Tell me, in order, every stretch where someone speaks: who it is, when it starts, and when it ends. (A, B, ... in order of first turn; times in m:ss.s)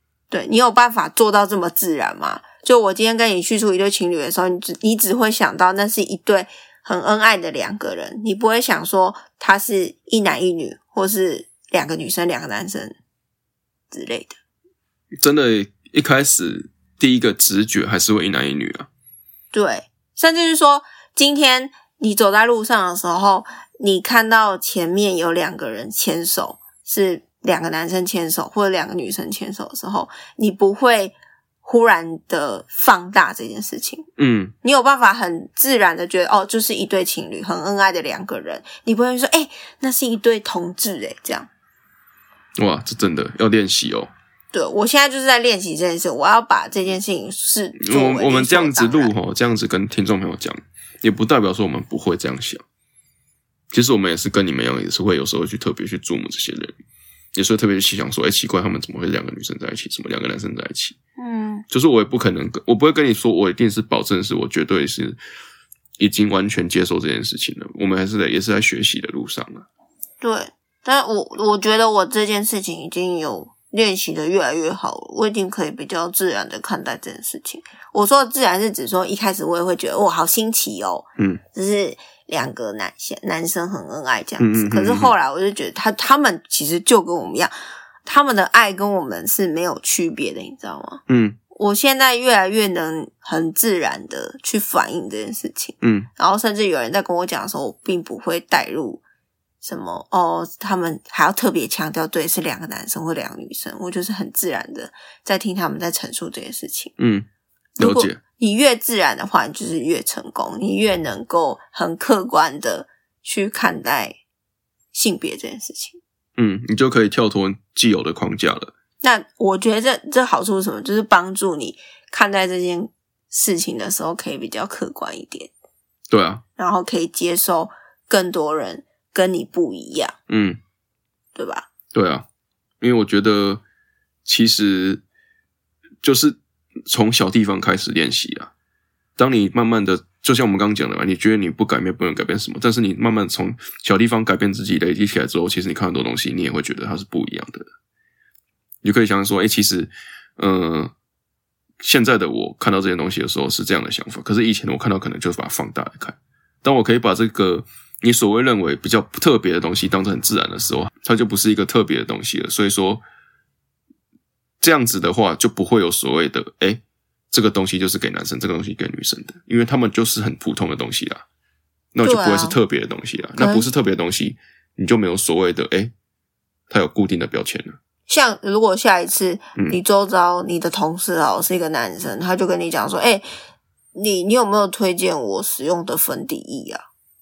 0:00.3-0:13.0 A
0:13.9-0:14.4 A
0:15.2-0:18.9 B
0:19.5-0:34.0 A
0:34.2-0:34.5 B
0:34.6-0:41.5 A
0:42.6-0:44.1 B
0:44.5-0:49.1 A
0:47.8-0:52.6 B
0:53.7-0:56.8 B
0:57.3-1:01.0 B
1:01.2-1:01.6 A
1:01.7-1:05.2 B
1:06.0-1:09.6 B
1:10.2-1:27.5 A
1:24.4-1:25.1 B
1:28.0-1:31.0 A
1:31.1-1:31.4 B
1:31.5-1:39.0 A
1:35.8-1:36.1 B
1:39.6-1:46.9 A
1:47.0-1:47.3 B
1:47.8-1:54.2 A
1:47.8-1:48.2 B
1:54.9-1:56.0 A
1:56.4-1:58.7 B
1:59.0-2:05.5 A
2:06.1-2:06.4 B
2:06.6-2:10.2 A
2:10.3-2:10.6 B
2:11.3-2:11.7 A
2:11.9-2:12.2 B
2:12.8-2:13.6 B
2:14.2-2:15.0 B
2:16.0-2:18.5 B
2:19.2-2:27.7 B
2:28.8-2:30.9 B
2:31.8-2:43.0 B
2:44.6-2:51.2 B
2:51.9-2:55.9 B
2:52.0-2:52.6 A
2:53.4-2:53.7 A
2:56.7-2:57.8 B
2:58.1-3:03.2 A
3:03.9-3:06.8 A